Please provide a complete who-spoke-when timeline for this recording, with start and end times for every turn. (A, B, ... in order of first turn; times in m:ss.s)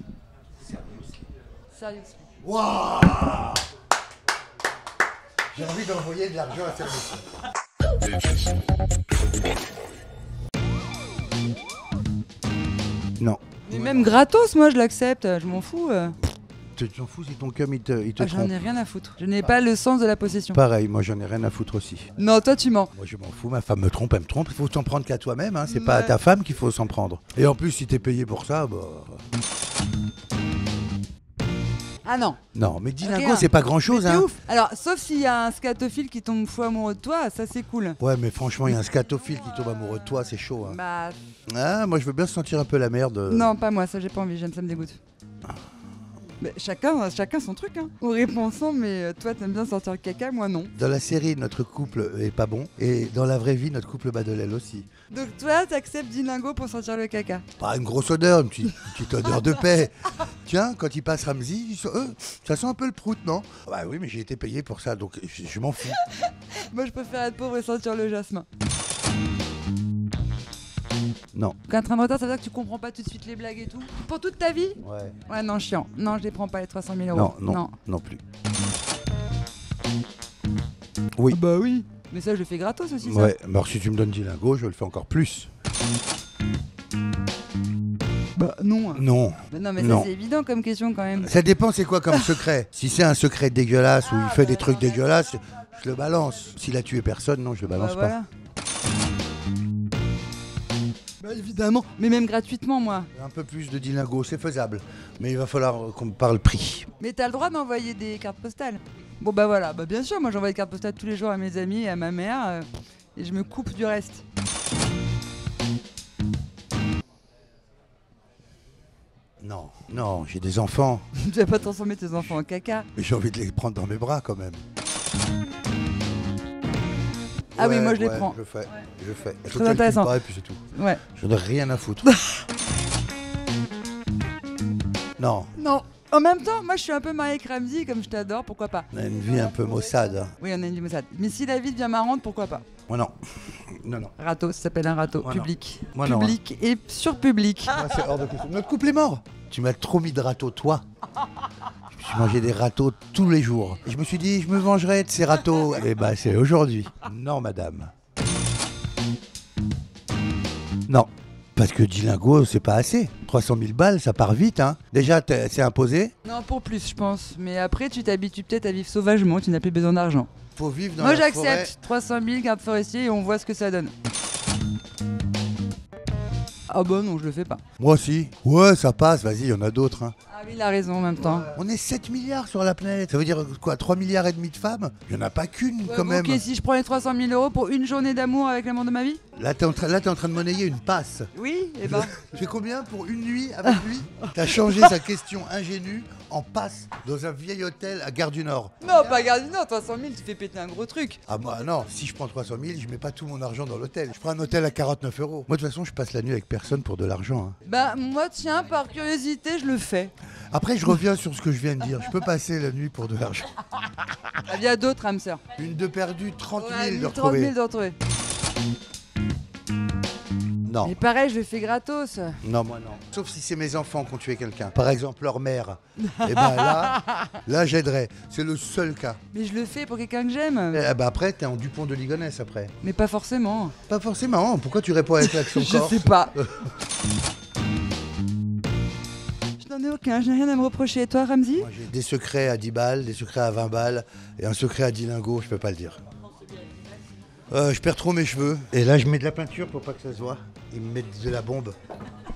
0:00.7-0:01.0 A
0:01.7-0:02.3 B
0:02.4-0:03.6 A
0:05.5-0:07.3 A
0:13.2-0:14.2 A
0:13.7-0:16.2 B
0:16.8-0:18.6 A
0:18.2-0:20.6 B
0:20.5-0:22.1 A
0:22.2-0:22.9 B
0:22.9-0:29.2 A
0:25.7-0:26.2 B
0:32.0-0:32.4 B
0:32.5-0:34.3 A
0:33.0-0:38.0 B
0:38.0-0:40.8 A
0:40.6-0:41.2 B
0:41.5-0:43.5 A
0:43.3-0:45.0 B
0:46.4-0:50.7 B
0:50.7-0:54.9 A
0:55.1-0:57.4 B
0:57.6-1:06.0 A
1:06.0-1:08.5 B
1:11.7-1:17.7 B
1:14.8-1:15.2 A
1:17.1-1:18.2 A
1:21.3-1:23.3 B
1:23.0-1:25.5 A
1:28.4-1:31.3 B
1:28.9-1:30.1 A
1:31.2-1:38.2 A
1:32.1-1:32.4 B
1:34.0-1:35.0 B
1:37.7-1:38.3 B
1:41.2-1:43.1 B
1:43.1-1:46.9 A
1:47.0-1:54.2 B
1:59.4-2:01.0 A
2:01.1-2:02.9 B
2:02.9-2:04.6 A
2:07.6-2:08.3 B
2:07.6-2:12.1 A
2:09.5-2:10.2 B
2:10.7-2:11.0 B
2:12.0-2:12.4 B
2:15.2-2:15.5 A
2:15.6-2:18.9 B
2:18.9-2:20.3 A
2:20.4-2:22.6 B
2:22.9-2:24.1 A
2:24.2-2:28.0 B
2:25.2-2:26.4 A
2:27.7-2:30.8 A
2:31.9-2:37.9 A
2:40.9-2:46.1 A
2:46.2-2:50.3 B
2:50.6-2:51.7 A
2:51.0-2:53.9 B
2:56.7-2:57.6 B
2:57.8-3:00.2 A
3:00.3-3:01.5 B
3:01.4-3:06.4 A
3:05.8-3:09.2 B
3:09.3-3:11.3 A
3:11.3-3:12.1 B
3:11.8-3:19.1 A
3:14.4-3:15.0 B
3:18.8-3:21.2 B
3:21.3-3:27.6 A
3:27.6-3:30.1 B
3:30.5-3:33.5 A
3:34.4-3:35.4 B
3:35.6-3:37.5 A
3:36.6-3:38.0 B
3:40.7-3:41.0 A
3:40.8-3:42.4 B
3:42.4-3:49.2 A
3:46.0-3:47.3 B
3:49.3-3:50.8 B
3:50.7-3:52.7 A
3:52.8-3:53.8 B
3:53.9-3:56.7 A
3:55.2-3:56.3 B
3:59.6-4:01.7 B
4:01.6-4:06.0 A
4:07.5-4:11.8 A